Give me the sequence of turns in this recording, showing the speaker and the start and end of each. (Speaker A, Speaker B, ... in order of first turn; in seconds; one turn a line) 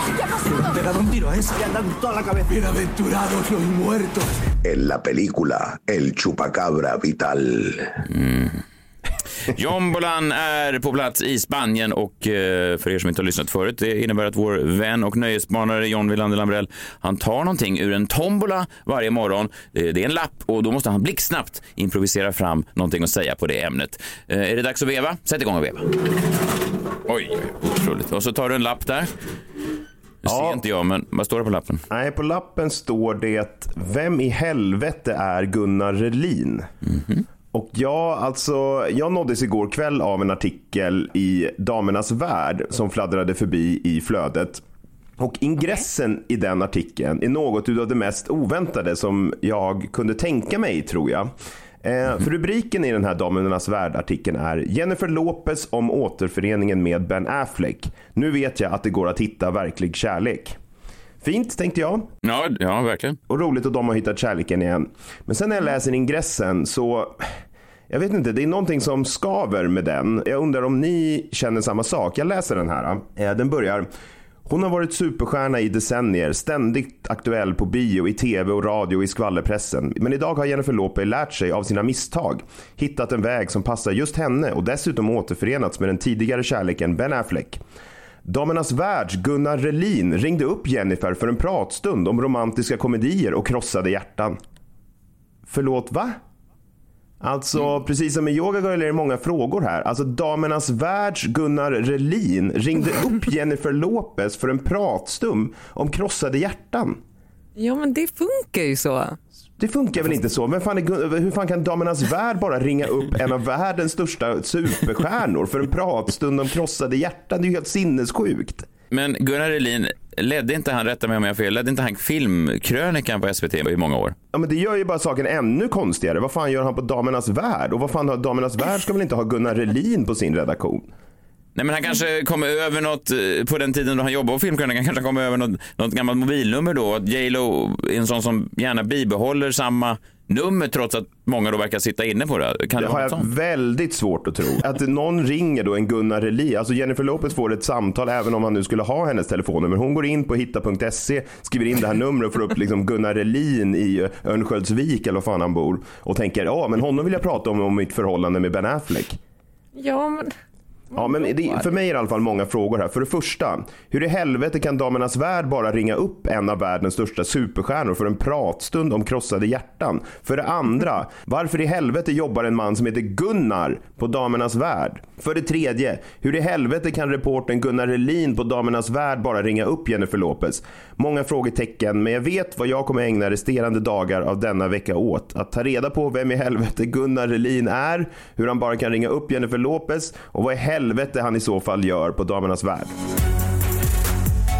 Speaker A: 0.4-4.5
Speaker B: 4.6-8.0
Speaker C: 8.1-8.6
Speaker C: 9.5-25.9
Speaker C: 27.1-29.1
Speaker C: 30.2-31.8
Speaker D: 30.2-30.6
Speaker D: 31.9-36.7
Speaker C: 36.9-37.2
Speaker D: 37.5-44.6
Speaker D: 45.2-51.3
Speaker D: 51.8-60.6
Speaker D: 61.2-62.1
Speaker C: 62.2-63.2
Speaker D: 63.3-67.3
Speaker D: 67.9-73.9
Speaker D: 74.5-87.6
Speaker D: 88.2-94.4
Speaker D: 95.5-96.2
Speaker D: 97.2-107.0
Speaker E: 107.6-109.2
Speaker D: 109.6-118.7
Speaker C: 118.9-124.2
Speaker D: 124.3-130.9
Speaker C: 131.6-143.3
Speaker D: 142.8-159.2
Speaker E: 159.8-160.3
Speaker E: 160.9-161.7
Speaker D: 160.9-192.9